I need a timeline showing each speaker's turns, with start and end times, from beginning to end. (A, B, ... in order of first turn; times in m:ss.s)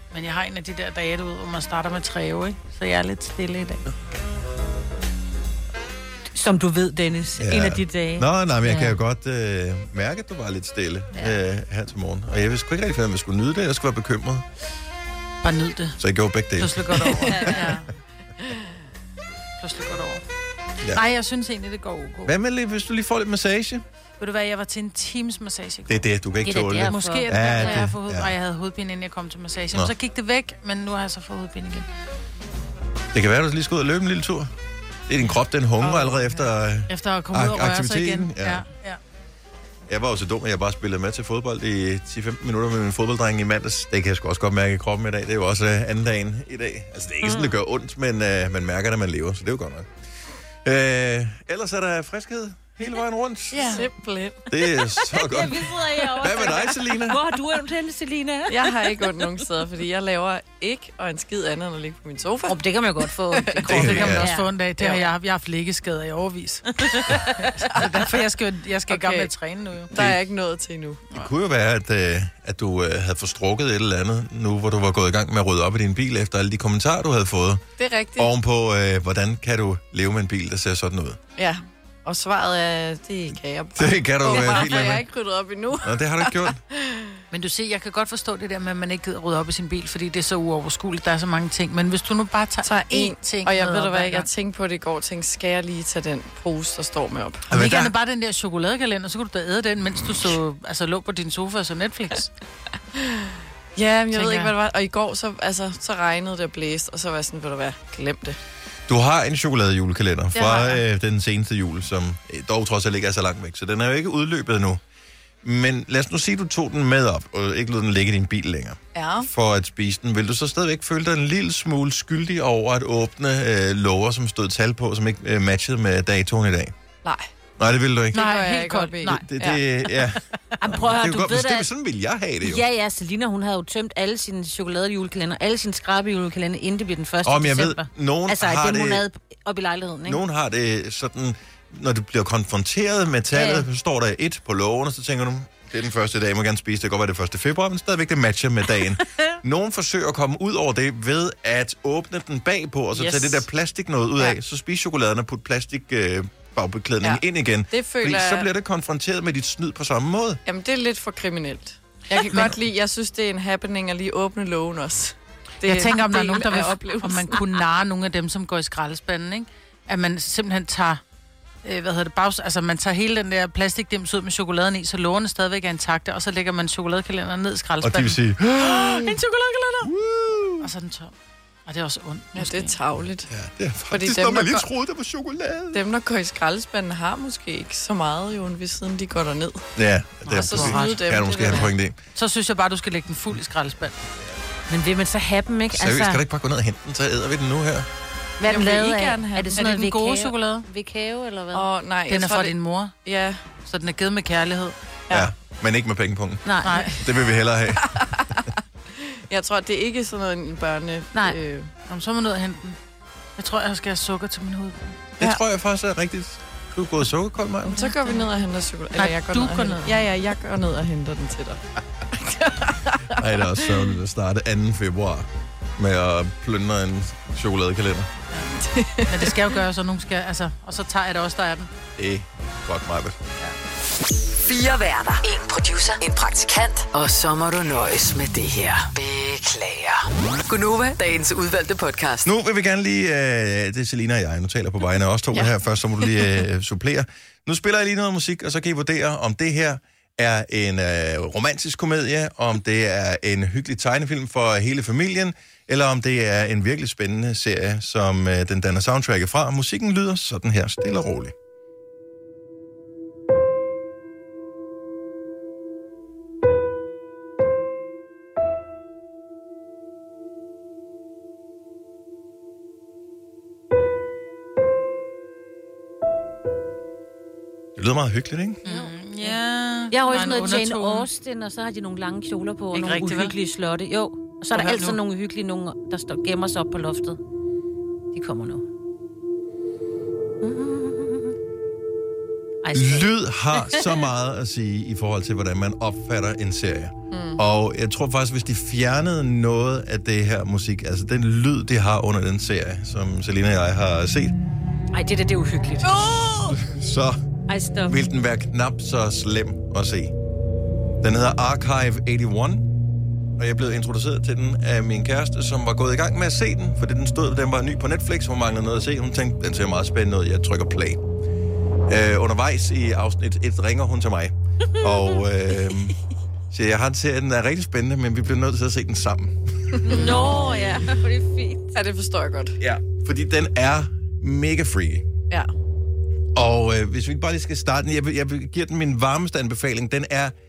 0:00.1-0:03.8 A
0:06.3-0:08.3 B
0:07.4-0:14.4 C
0:15.4-0:16.0 A
0:16.0-0:17.5 C
0:16.6-0:17.9 A
0:17.1-0:17.3 D
0:19.6-0:20.2 A
0:20.9-0:22.3 A
0:22.2-0:23.8 C
0:24.2-0:26.0 A
0:25.9-0:28.3 C
0:26.4-0:27.8 B
0:26.8-0:31.9 A
0:33.1-0:34.5 C
0:35.1-0:38.6 C
0:35.8-0:36.2 D
0:36.9-0:39.0 A
0:39.9-0:49.9 C
0:47.2-0:47.5 B
0:50.6-0:53.7 C
0:53.5-0:53.8 A
0:53.6-0:54.5 D
0:54.5-0:57.2 C
0:55.1-0:59.4 B
0:58.5-1:02.6 D
1:02.5-1:04.5 B
1:03.3-1:04.1 D
1:03.7-1:04.3 C
1:03.8-1:06.7 A
1:04.8-1:05.0 D
1:06.8-1:07.5 B
1:07.6-1:09.9 A
1:08.9-1:09.3 D
1:09.9-1:10.2 C
1:09.9-1:11.2 D
1:11.1-1:17.6 C
1:17.8-1:18.3 D
1:18.2-1:21.2 C
1:21.4-1:27.2 D
1:23.8-1:25.0 C
1:25.8-1:26.6 C
1:27.3-1:34.3 A
1:32.6-1:37.4 D
1:37.5-1:37.9 C
1:37.5-1:42.3 A
1:43.0-1:48.4 D
1:44.1-1:44.5 A
1:48.9-1:54.8 C
1:50.3-1:50.8 D
1:55.4-2:06.7 C
1:58.9-1:59.3 D
2:07.0-2:07.3 D
2:07.6-2:08.3 C
2:08.1-2:09.2 A
2:08.1-2:09.6 D
2:09.0-2:12.6 C
2:10.6-2:11.7 B
2:12.4-2:20.2 B
2:17.2-2:19.0 C
2:20.0-2:40.4 C
2:23.3-2:23.6 B
2:33.0-2:33.4 D
2:37.0-2:38.5 D
2:40.4-2:47.4 D
2:45.6-2:51.0 A
2:51.6-2:59.9 A
2:57.8-2:59.2 C
2:59.8-3:00.7 C
3:00.6-3:01.1 A
3:01.6-3:02.8 A
3:02.3-3:03.3 D
3:03.3-3:05.8 C
3:03.9-3:04.6 D
3:05.7-3:09.6 D
3:09.8-3:12.0 C
3:10.3-3:11.6 A
3:10.3-3:11.7 D
3:12.1-3:14.0 A
3:14.7-3:16.2 B
3:15.7-3:17.9 C
3:18.4-3:21.7 B
3:18.4-3:19.6 D
3:19.6-3:20.6 A
3:21.5-3:23.4 D
3:22.1-3:22.9 A
3:23.6-3:24.7 A
3:25.1-3:28.0 C
3:26.4-3:26.8 B
3:26.6-3:27.0 A
3:27.8-3:28.5 D
3:29.0-3:31.7 D
3:31.8-3:32.8 A
3:33.4-3:35.0 A
3:35.2-3:37.9 C
3:37.6-3:43.7 D
3:39.0-3:40.0 A
3:43.2-3:45.3 C
3:45.8-3:48.1 C
3:48.6-3:49.3 D
3:49.1-3:51.7 A
3:52.0-3:53.2 C
3:54.4-4:02.3 E
4:02.2-4:21.3 C
4:05.3-4:06.3 D
4:37.8-4:38.6 C
4:38.6-4:41.1 A
4:38.6-4:39.4 B
4:39.9-4:47.2 B
4:42.7-4:43.3 A
4:44.5-4:45.0 A
4:48.1-4:48.6 B
4:50.4-4:51.3 B
4:52.6-4:54.0 B
4:52.7-5:04.3 C
4:57.1-4:57.4 D
5:04.9-5:06.6 B
5:05.8-5:06.4 D
5:06.5-5:07.2 C
5:07.5-5:08.0 B
5:07.8-5:10.1 C
5:11.0-5:12.7 C
5:13.4-5:21.0 C
5:21.9-5:25.9 C
5:26.5-5:30.1 C
5:29.7-5:30.5 D
5:29.9-5:31.7 B
5:31.7-5:32.6 D
5:32.6-5:35.0 C
5:36.3-5:40.3 C